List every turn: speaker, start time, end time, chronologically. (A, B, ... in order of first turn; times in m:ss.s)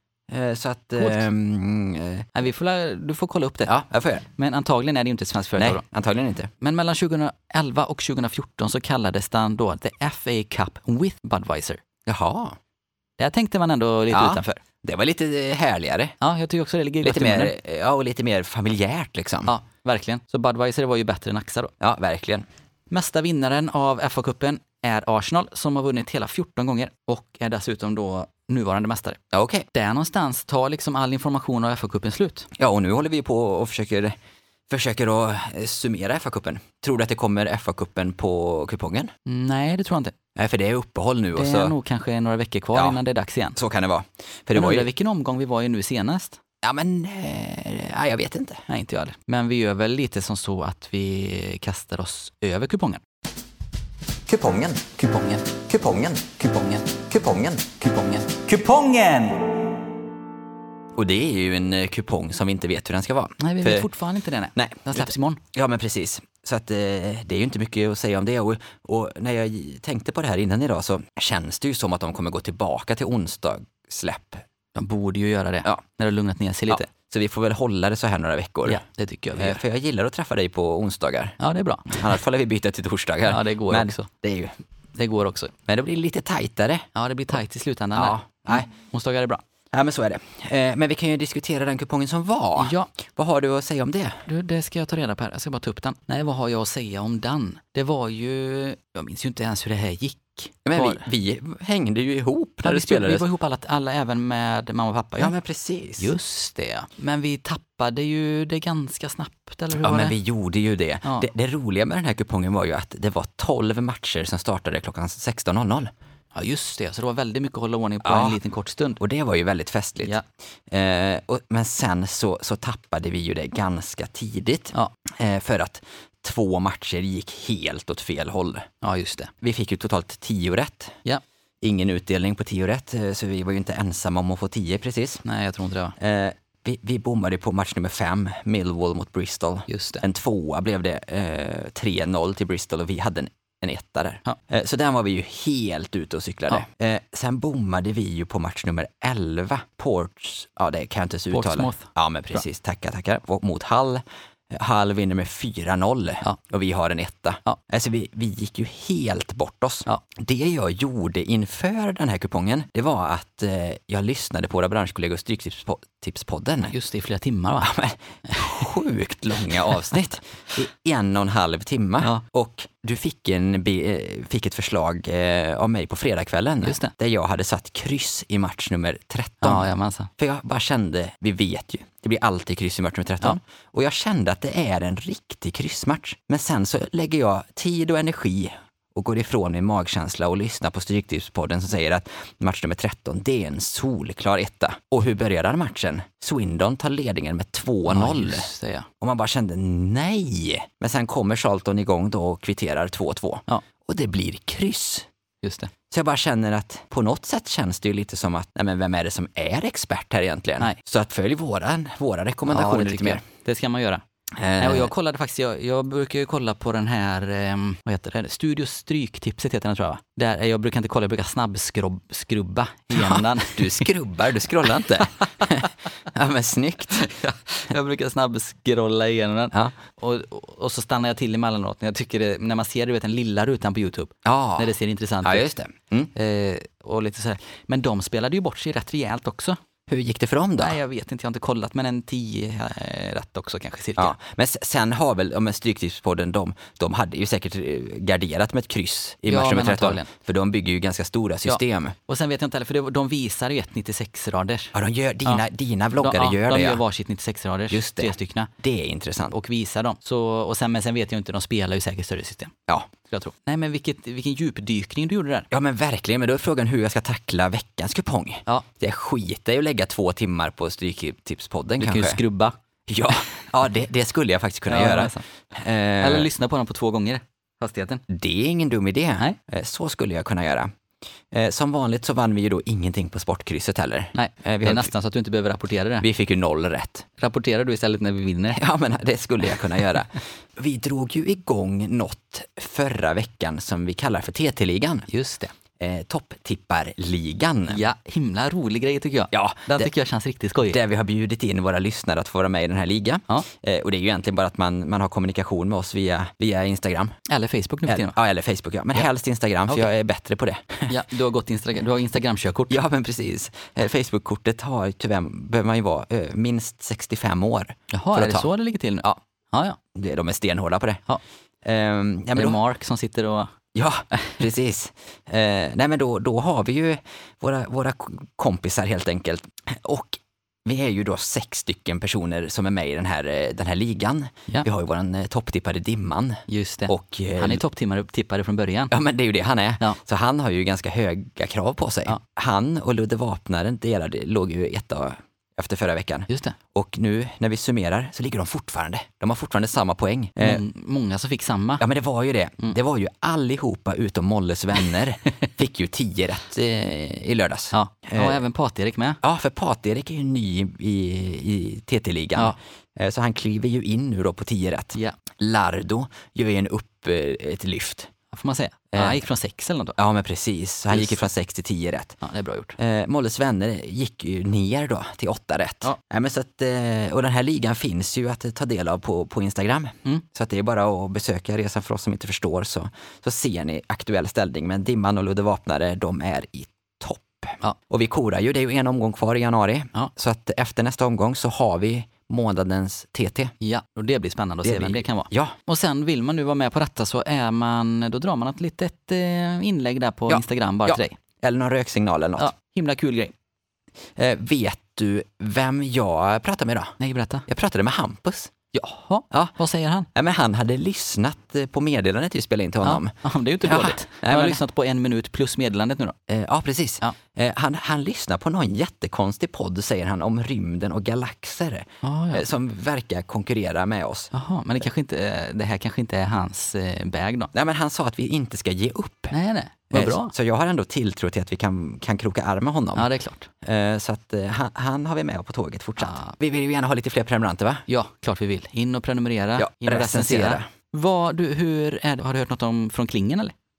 0:00.3-0:02.3 A
0:02.4-0:03.7 B
0:03.6-0:04.2 A
0:04.4-0:05.8 B
0:05.6-0:06.5 A
0:06.6-0:11.8 B
0:12.1-0:12.6 A
0:13.2-0:14.5 B
0:14.1-0:16.2 A
0:16.2-0:17.5 B
0:17.0-0:19.5 A
0:19.5-0:21.7 B
0:21.8-0:22.5 A
0:22.9-0:29.2 B
0:29.3-0:29.7 A
0:29.7-0:32.5 B
0:32.6-0:34.2 A
0:34.7-0:39.1 A
0:39.3-0:40.1 B
0:40.4-0:41.8 A
0:41.4-0:43.6 B
0:42.7-0:43.0 A
0:43.6-0:44.9 A
0:44.5-0:46.4 B
0:46.6-0:48.6 A
0:48.7-0:53.0 B
0:54.3-0:58.8 A
0:55.0-0:55.5 B
0:56.4-0:56.8 B
0:57.8-0:59.4 B
1:01.0-1:03.9 A
1:03.4-1:05.4 B
1:04.5-1:14.4 A
1:14.8-1:16.9 B
1:16.7-1:18.8 A
1:18.7-1:19.6 B
1:19.4-1:21.4 A
1:21.4-1:22.1 B
1:21.9-1:24.6 A
1:23.3-1:24.1 B
1:25.0-1:25.5 B
1:25.7-1:26.9 A
1:27.0-1:29.4 B
1:28.0-1:28.7 A
1:29.7-1:34.2 A
1:32.6-1:32.9 B
1:34.3-1:41.1 B
1:40.6-1:43.2 A
1:42.6-1:45.3 B
1:45.2-1:46.1 A
1:46.0-1:50.2 B
1:49.8-1:55.9 A
1:56.3-1:59.0 B
1:58.0-1:58.4 A
1:59.0-2:08.7 A
2:08.8-2:09.3 B
2:09.4-2:11.0 A
2:11.6-2:15.2 A
2:15.2-2:16.0 B
2:16.0-2:46.7 A
2:19.7-2:20.0 B
2:31.3-2:32.4 B
2:46.7-2:47.7 B
2:47.6-3:25.1 A
2:48.3-2:48.7 B
2:56.6-2:56.9 B
2:59.4-3:00.1 B
3:17.9-3:18.9 B
3:25.4-3:25.7 B
3:25.9-3:33.2 A
3:32.5-3:34.0 B
3:34.4-3:34.9 A
3:34.6-3:43.9 B
3:42.9-3:47.1 A
3:47.0-3:55.5 B
3:54.2-3:56.1 A
3:56.1-3:59.6 B
3:59.9-4:00.8 A
4:00.6-4:04.1 B
4:04.0-4:12.0 A
4:09.3-4:10.1 B
4:11.4-4:14.7 B
4:14.7-4:16.8 A
4:16.0-4:18.5 B
4:17.7-4:19.4 A
4:19.3-4:25.5 B
4:25.5-4:32.2 A
4:31.8-4:32.6 B
4:32.9-4:36.3 A
4:34.7-4:35.2 B
4:36.0-4:38.0 B
4:38.1-4:40.7 A
4:41.3-4:44.9 A
4:44.1-4:46.1 B
4:46.0-4:47.1 A
4:47.2-4:48.6 B
4:48.5-4:55.1 A
4:55.1-4:55.5 B
4:55.8-4:57.9 A
4:57.7-5:00.8 B
4:59.3-4:59.9 A
5:00.6-5:07.1 A
5:07.3-5:08.2 B
5:07.9-5:11.0 A
5:10.9-5:12.8 B
5:12.7-5:18.5 A
5:17.9-5:19.8 B
5:20.0-5:21.0 A
5:21.6-5:22.6 A
5:22.4-5:23.5 B
5:23.7-5:37.6 A
5:24.1-5:24.4 B
5:36.5-5:38.9 B
5:38.9-5:50.6 A
5:46.3-5:46.6 B
5:50.4-5:51.8 B
5:51.8-5:58.4 A
5:57.7-5:59.2 B
5:59.2-6:08.1 A
6:08.3-6:10.0 B
6:08.9-6:09.2 A
6:10.0-6:12.2 A
6:10.9-6:11.2 B
6:12.2-6:12.8 B
6:12.8-6:33.5 A
6:33.6-6:41.2 B
6:34.6-6:35.6 A
6:40.3-6:42.5 A
6:42.4-6:43.3 B
6:44.2-6:47.0 A
6:47.0-6:47.5 B
6:47.5-6:48.5 A
6:48.7-6:50.1 B
6:49.3-6:49.6 A
6:50.1-6:54.6 A
6:52.8-6:56.2 B
6:56.3-7:04.3 A
7:02.0-7:02.4 B
7:04.3-7:07.5 B
7:07.5-7:09.3 A
7:09.3-7:10.3 B
7:09.9-7:13.1 A
7:13.0-7:13.5 B
7:13.6-7:17.9 A
7:16.0-7:16.4 B
7:17.9-7:23.5 B
7:19.6-7:20.7 A